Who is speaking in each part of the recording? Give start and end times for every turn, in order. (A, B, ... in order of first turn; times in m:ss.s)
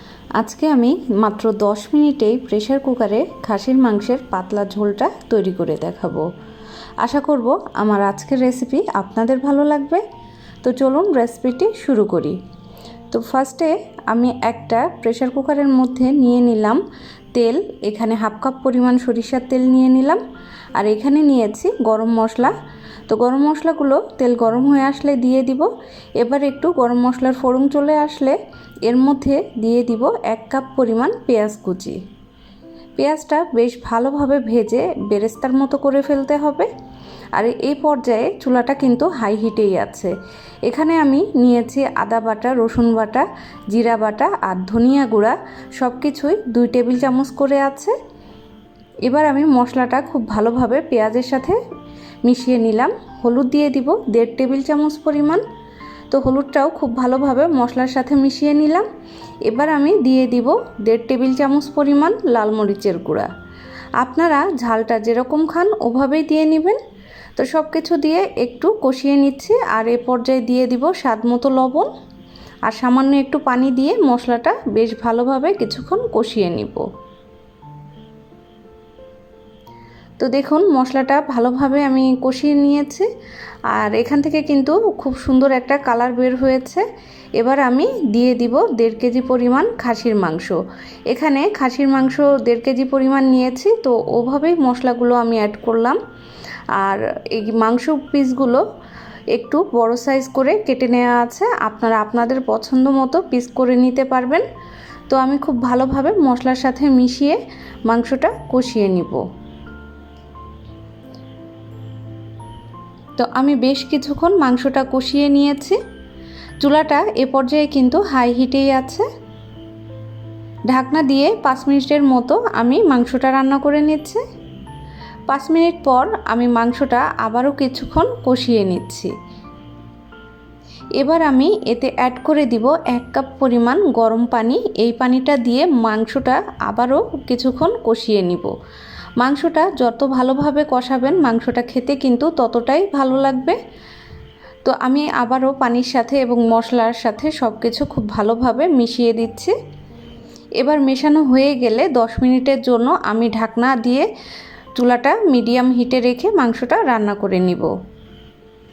0:00.4-0:06.3 A
0:07.0-0:10.0 A
0:10.6-0:12.4 A
0:13.1-0:16.8 A
0:17.3-0:20.2 A
0:20.8-0:22.6 A
0:23.1-0:25.7 A
0:26.2-0:32.0 A
0:33.0-0:36.7 A
0:37.4-0:40.1 A
0:40.7-0:47.9 A
0:49.0-0:51.6 A
0:52.2-0:55.4 A
0:56.1-0:58.9 A
0:59.5-1:03.3 A
1:04.0-1:06.8 A
1:07.4-1:11.9 A
1:12.7-1:16.9 A
1:20.2-1:23.1 A
1:23.7-1:26.9 A
1:27.4-1:30.6 A
1:31.1-1:36.0 A
1:36.8-1:38.6 A
1:39.3-1:44.5 A
1:45.1-1:49.2 A
1:53.2-1:55.8 A
1:56.6-1:59.1 A
2:00.7-2:04.2 A
2:05.3-2:09.1 A
2:11.0-2:18.5 A
2:19.2-2:23.6 A
2:24.6-2:29.5 A
2:30.6-2:34.1 A
2:34.8-2:37.7 A